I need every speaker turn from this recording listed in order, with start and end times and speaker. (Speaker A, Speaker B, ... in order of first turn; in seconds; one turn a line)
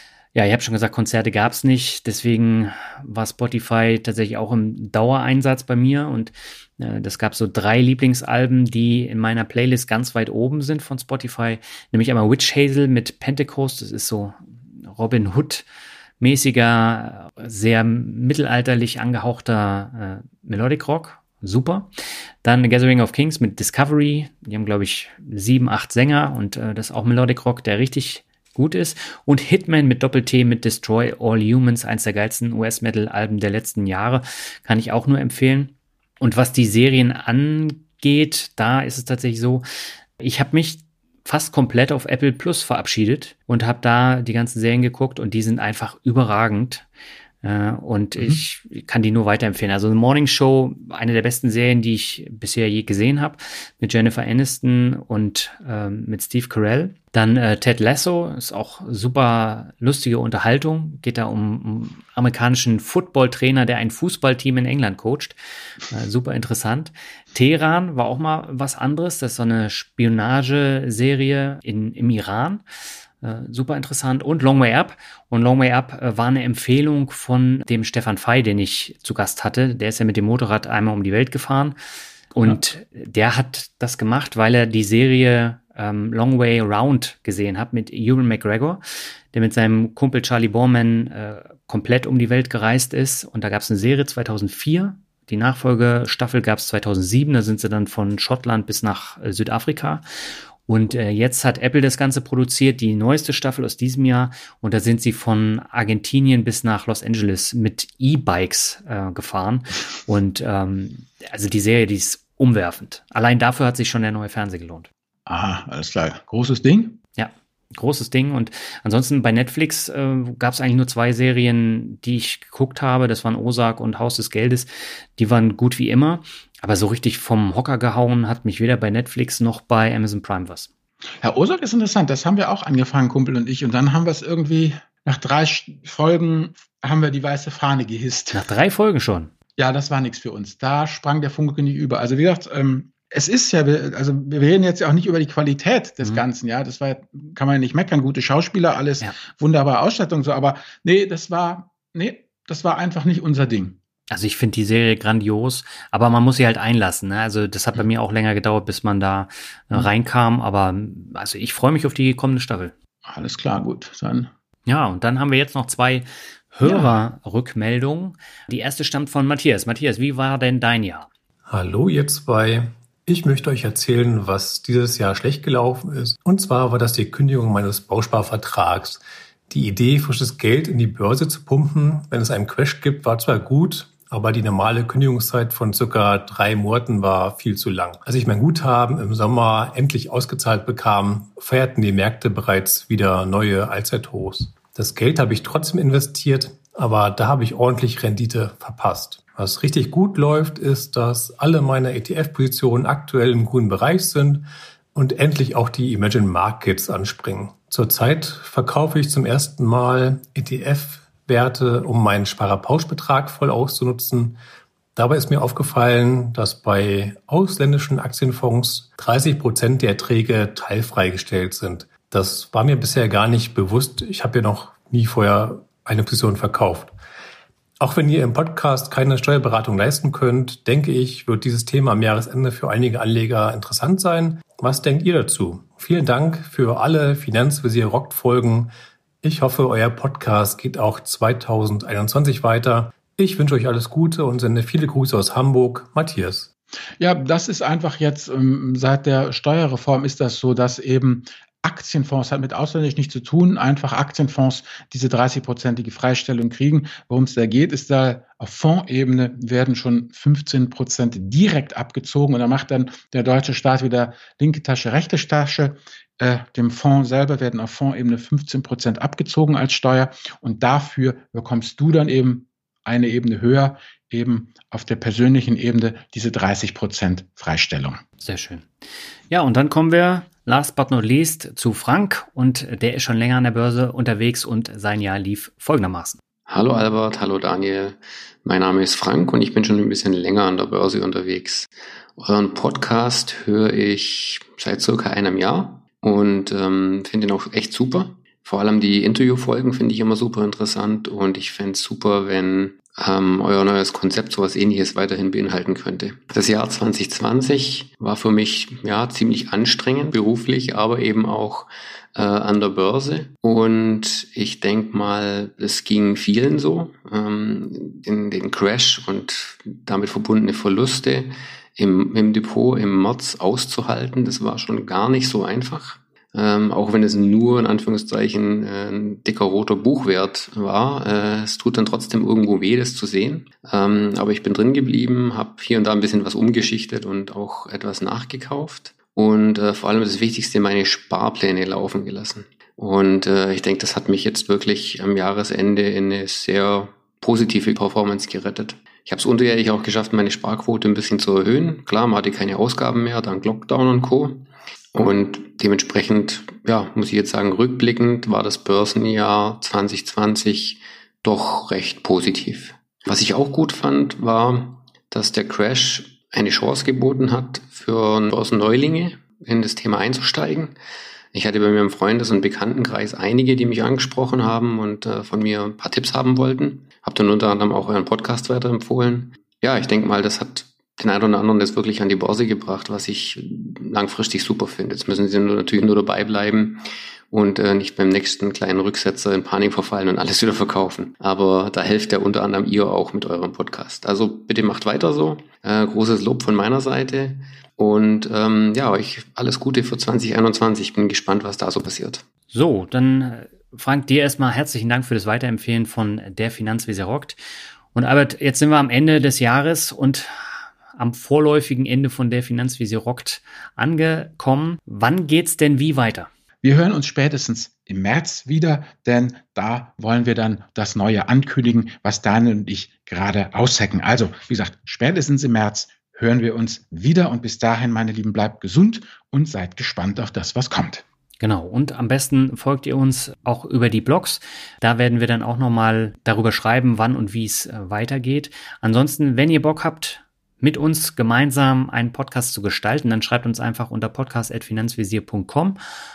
Speaker A: 0.3-15.6
Speaker A: 16.2-21.9
Speaker A: 22.4-39.6
Speaker A: 40.2-46.9
Speaker A: 47.4-65.4
Speaker A: 65.9-72.6
Speaker A: 73.2-81.8
Speaker A: 82.3-88.8
Speaker A: 89.3-100.0
Speaker A: 100.7-114.9
Speaker B: 115.2-117.0
Speaker A: 117.2-130.7
Speaker B: 131.2-138.4
Speaker A: 138.3-139.3
Speaker B: 139.6-153.8
Speaker A: 154.1-162.7
Speaker B: 163.1-164.3
Speaker A: 164.7-171.1
Speaker B: 166.6-166.9
Speaker C: 171.5-214.4
Speaker C: 214.9-226.9
Speaker C: 227.8-246.5
Speaker B: 247.0-278.0
Speaker A: 278.2-278.7
Speaker A: 279.3-286.2
Speaker D: 286.5-370.7
Speaker D: 371.3-386.8
Speaker D: 387.3-402.2
Speaker A: 402.5-407.4
Speaker A: 407.9-416.3
Speaker B: 416.6-431.0
Speaker A: 431.4-445.8